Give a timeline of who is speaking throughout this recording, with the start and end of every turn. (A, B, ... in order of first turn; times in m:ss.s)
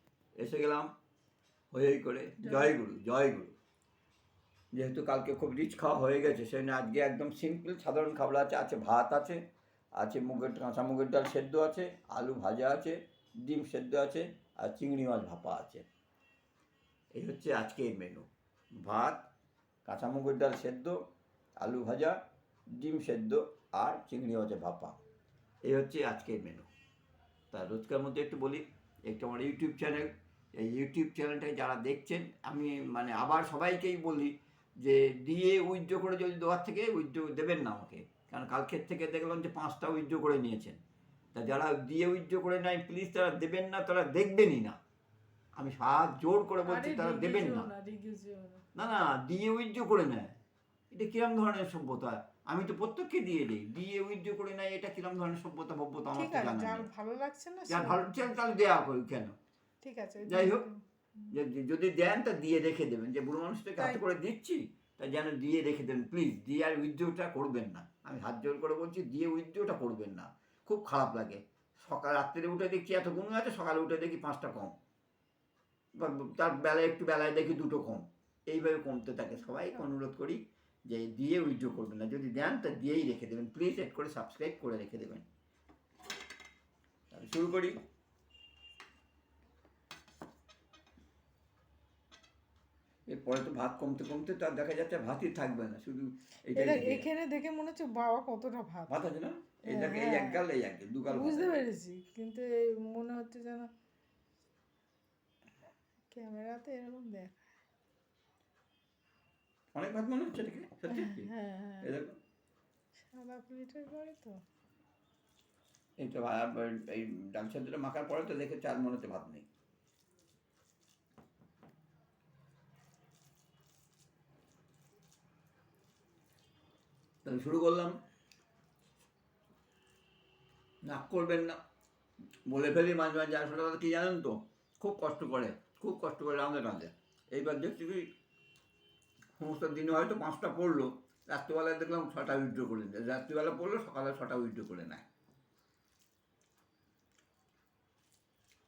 0:00.4-0:00.9 A
0:01.7-0:03.5 A
0:02.4-0:02.7 B
0:04.7-0:09.4 A
0:10.0-0:15.8 A
0:17.1-0:18.3 A
0:18.8-0:19.3 A
0:19.8-0:21.0 A
0:21.6-0:22.2 A
0:22.7-0:25.0 A
0:25.6-0:26.7 A
0:27.5-0:40.8 A
0:41.3-0:44.8 A
0:45.6-0:47.7 A
0:46.6-0:48.6 B
0:48.7-0:50.4 A
0:50.9-0:56.8 A
0:56.1-0:58.1 B
0:57.7-0:59.4 A
0:59.8-1:01.3 B
1:00.2-1:00.6 A
1:01.3-1:14.8 A
1:16.0-1:25.2 A
1:27.1-1:27.8 A
1:33.1-1:37.1 A
1:36.5-1:38.9 B
1:38.9-1:41.6 A
1:39.7-1:40.4 B
1:41.1-1:43.7 B
1:46.1-1:47.4 B
1:49.7-1:51.3 A
1:50.9-1:51.9 B
1:51.8-1:52.2 A
1:53.0-1:54.4 B
1:56.0-1:59.4 A
2:07.2-2:08.0 A
2:10.8-2:11.6 A
2:12.5-2:18.1 A
2:19.4-2:25.0 A